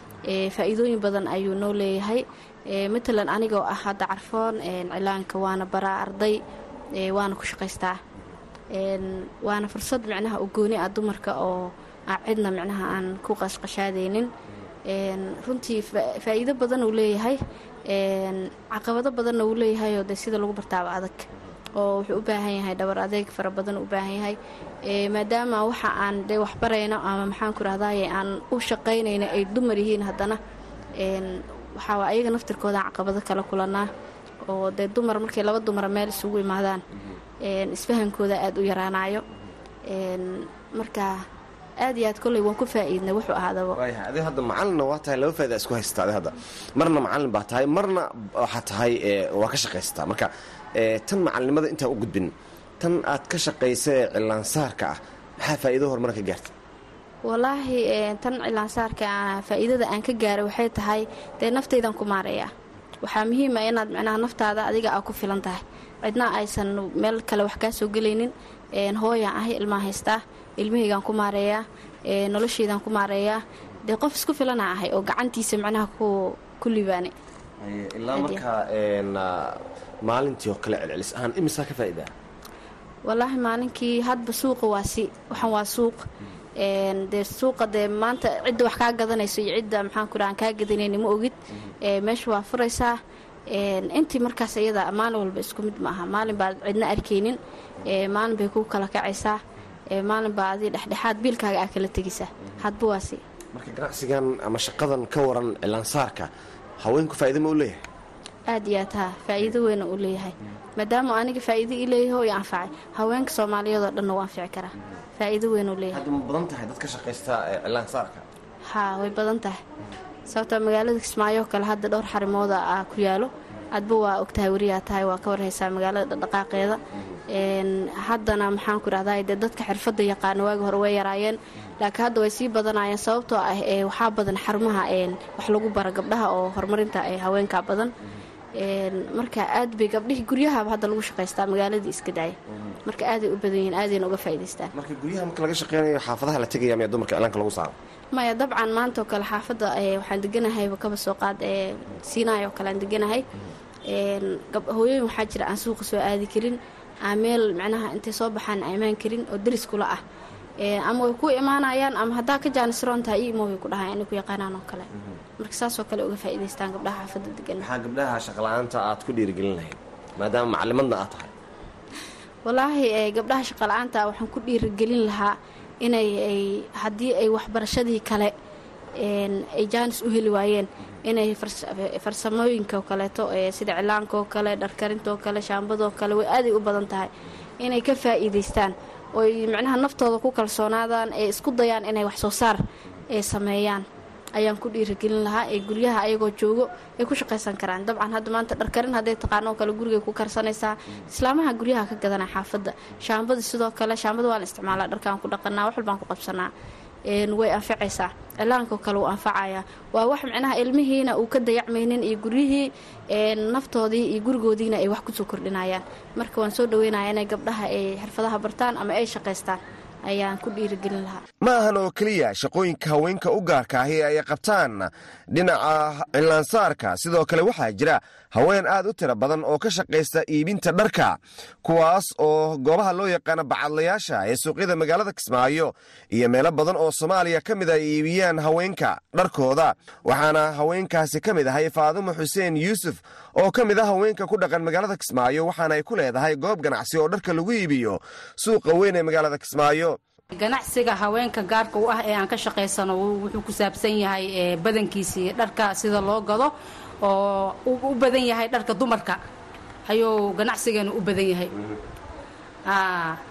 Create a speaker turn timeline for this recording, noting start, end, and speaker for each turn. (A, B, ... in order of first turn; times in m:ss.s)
0:00.3-0:06.4 A
0:07.0-0:08.0 A
0:08.7-0:14.3 A
0:14.9-0:21.2 A
0:21.8-0:24.4 A
0:24.9-0:30.4 A
0:31.0-0:33.9 A
0:34.5-0:36.8 A
0:37.4-0:39.2 A
0:39.9-0:41.1 A
0:41.8-0:43.8 A
0:43.7-0:56.5 B
0:57.2-1:02.5 A
1:03.0-1:17.1 A
1:17.6-1:22.1 B
1:18.1-1:18.4 A
1:23.1-1:26.0 A
1:26.6-1:32.9 A
1:33.5-1:39.4 A
1:39.9-1:43.2 A
1:43.5-1:46.3 B
1:46.8-1:47.8 B
1:48.5-1:56.0 A
1:55.9-1:58.2 B
1:58.7-1:59.6 A
2:00.3-2:06.8 A
2:07.3-2:17.9 A
2:18.6-2:24.7 A
2:24.7-2:27.7 B
2:28.1-2:33.2 A
2:33.9-2:40.0 A
2:40.6-2:47.6 A
2:47.6-2:51.3 B
2:52.4-2:58.3 A
2:59.0-3:07.1 A
3:07.6-3:12.6 A
3:13.1-3:13.8 A
3:14.4-3:26.5 A
3:27.1-3:41.2 A
3:41.4-4:10.0 B
4:10.3-4:16.5 C
4:17.0-4:19.2 C
4:19.9-4:21.5 C
4:21.5-4:21.8 B
4:22.6-4:23.2 C